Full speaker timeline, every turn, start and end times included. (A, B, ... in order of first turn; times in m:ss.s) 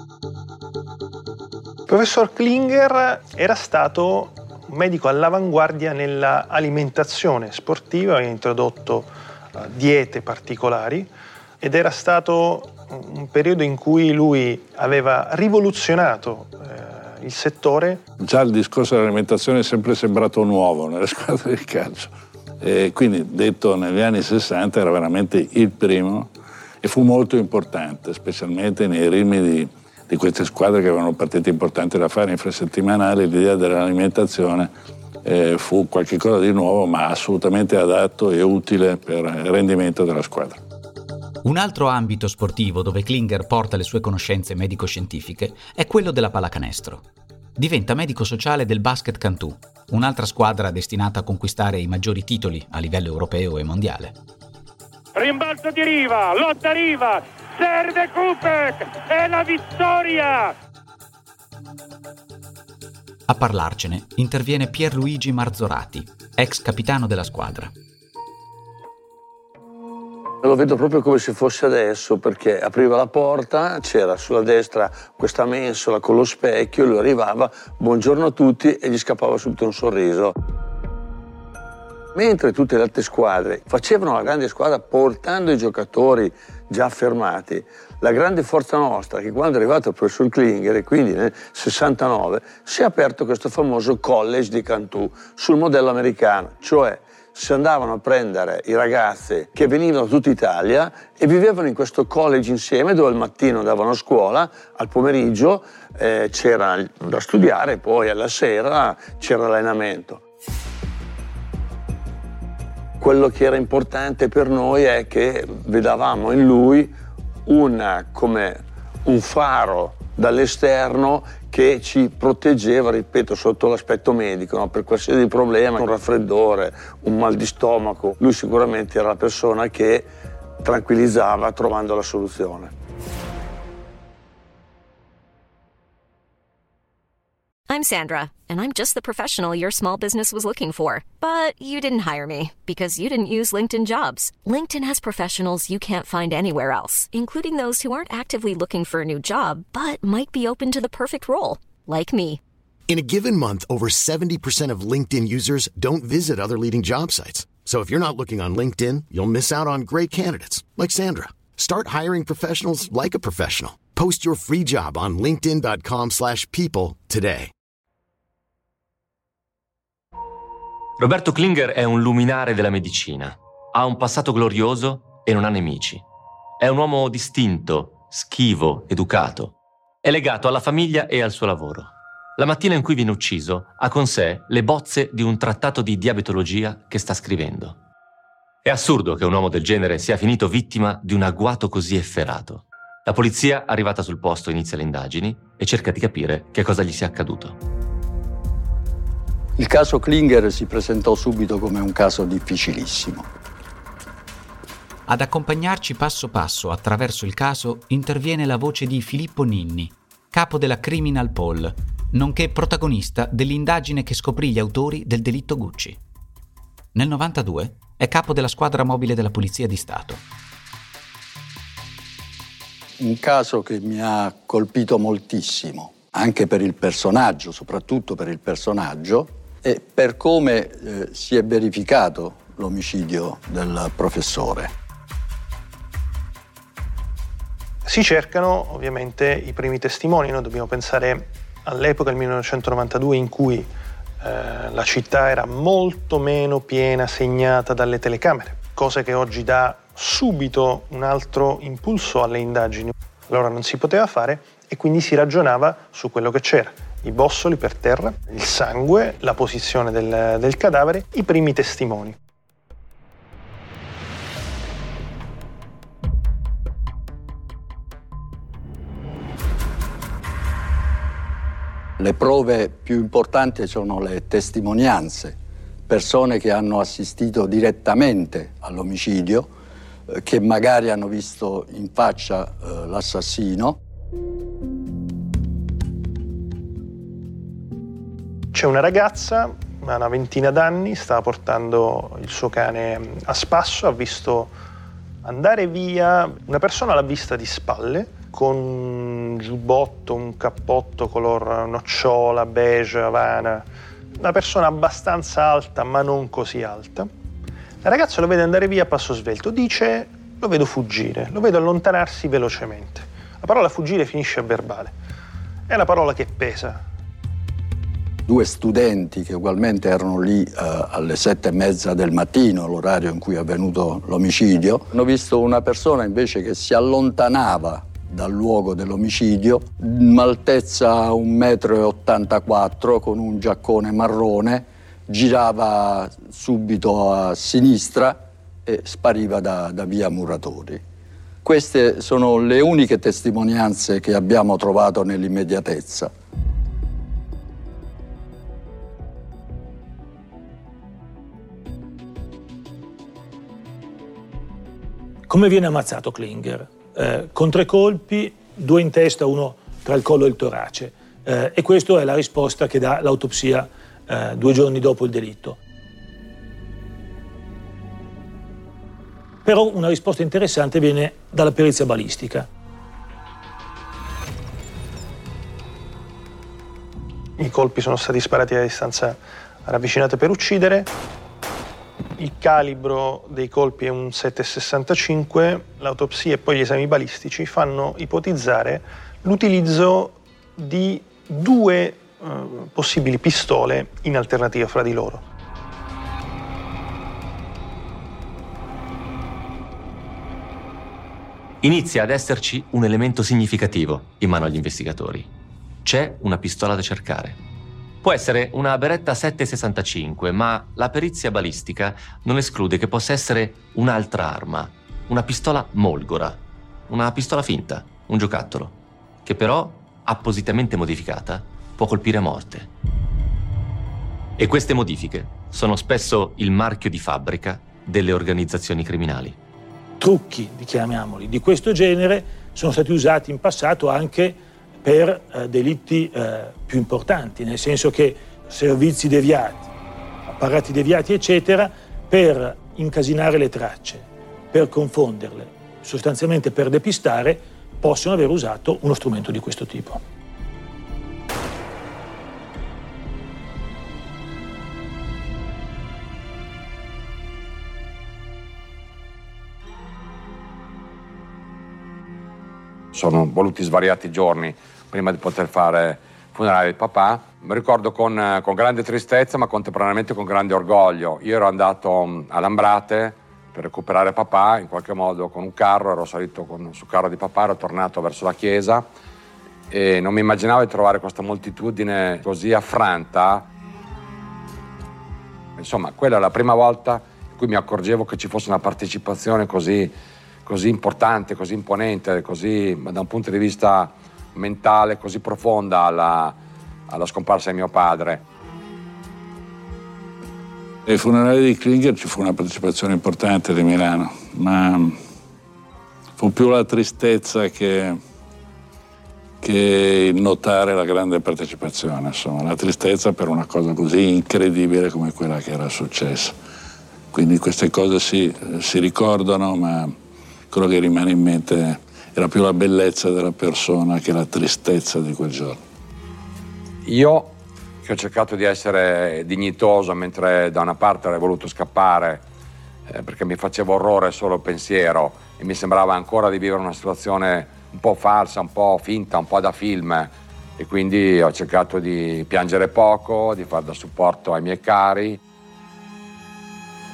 0:01.9-0:11.1 A
0:11.6-0:18.0 A
0:18.2-0:26.3 B
0:26.8-0:34.7 B
0:35.2-0:40.6 B
0:41.4-0:47.0 C
0:47.6-0:54.2 C
0:55.2-1:00.5 D
1:03.3-1:07.7 C
1:10.4-1:20.3 E
1:22.2-1:50.2 E
1:53.0-1:56.9 E
1:57.5-2:10.1 E
2:10.6-2:12.7 E
2:17.7-2:32.4 F
2:32.9-2:47.5 G
2:51.0-2:56.0 H
2:56.6-3:07.8 H
3:08.6-3:17.6 H
3:19.6-3:23.3 I
3:25.1-3:36.0 C
3:37.0-3:40.2 C
3:43.0-3:54.7 I
3:57.8-4:03.7 A
4:04.2-4:22.2 A
4:32.0-4:35.4 I
4:35.9-4:39.5 I
4:40.1-4:43.8 I
4:48.5-4:54.5 A
4:55.2-5:03.7 A
5:04.2-5:07.1 A
5:07.8-5:14.9 A
5:15.7-5:16.8 A
5:18.3-5:40.8 I
5:41.4-5:46.1 I
5:55.3-6:05.6 J
6:09.4-6:12.5 J
6:17.4-6:20.9 A
6:22.2-6:35.2 A
6:41.6-6:45.3 H
6:45.8-6:47.4 H
6:48.0-7:02.7 H
7:04.4-7:09.4 H
7:10.0-7:19.7 J
7:20.3-7:30.0 J
7:42.9-7:58.8 K
7:59.7-8:03.5 K
8:05.6-8:09.9 K
8:10.5-8:16.4 K
8:16.9-8:18.2 K
8:20.9-8:25.0 B
8:26.2-8:28.0 B
8:29.4-8:36.4 B
8:37.1-8:39.9 B
8:40.5-8:45.6 B
8:46.9-8:52.2 K
8:52.9-9:05.2 K